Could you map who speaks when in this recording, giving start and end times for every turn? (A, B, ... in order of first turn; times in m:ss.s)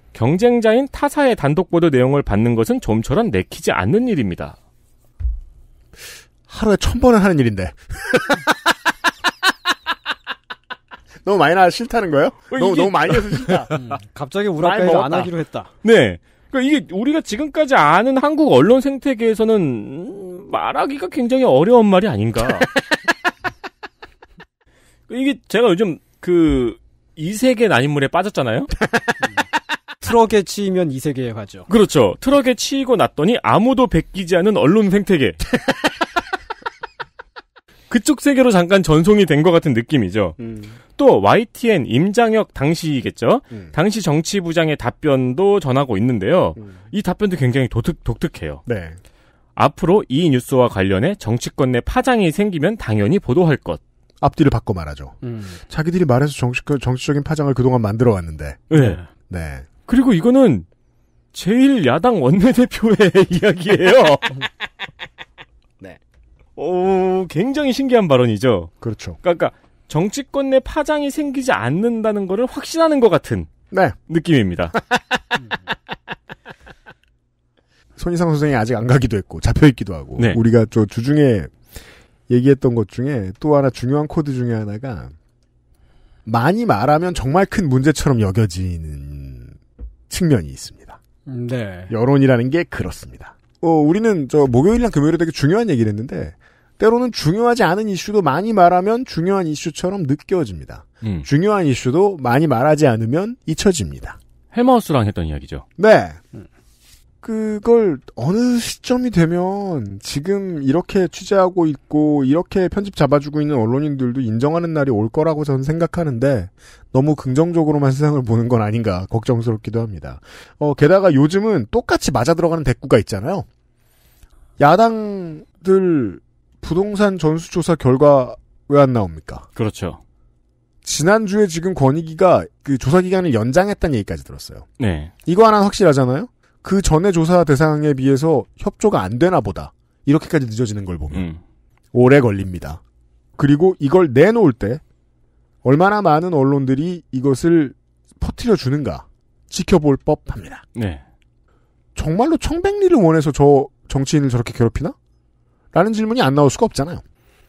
0:00.1-0:04.6 A
0:06.5-0:08.6 B
0:11.2-0:13.8 B
0:12.5-0:13.7 A
0:13.7-0:15.7 C
0:14.6-0:15.3 B
0:15.8-0:22.7 A
0:25.1-0:28.8 A
0:30.0-0:31.7 C
0:31.7-0:35.5 A
0:37.9-0:40.4 A
0:40.4-0:40.8 B
0:41.0-0:48.6 A
0:48.7-0:49.0 B
0:49.6-0:53.8 A
0:54.2-0:58.7 B
0:55.2-0:55.6 C
0:58.7-0:59.0 A
0:58.7-0:59.0 C
0:59.3-0:59.7 B
0:59.9-1:00.7 A
1:01.3-1:04.4 A
1:06.6-1:13.5 A
1:08.8-1:09.2 B
1:13.7-1:14.0 B
1:14.1-1:14.8 A
1:18.0-1:21.5 B
1:22.3-1:25.1 B
1:26.3-1:29.6 B
1:30.1-1:31.0 B
1:31.3-1:31.9 C
1:31.9-1:44.2 B
1:41.0-1:41.3 A
1:44.5-1:45.6 A
1:45.8-1:46.2 B
1:47.2-2:03.5 B
2:04.6-2:09.5 B
2:09.6-2:10.0 A
2:10.8-2:14.7 B
2:14.8-2:15.1 A
2:15.3-2:21.3 B
2:21.1-2:21.4 A
2:21.9-2:22.8 B
2:23.4-2:24.8 B
2:25.6-2:30.6 B
2:30.7-2:31.0 A
2:32.0-2:35.0 B
2:35.7-2:37.0 B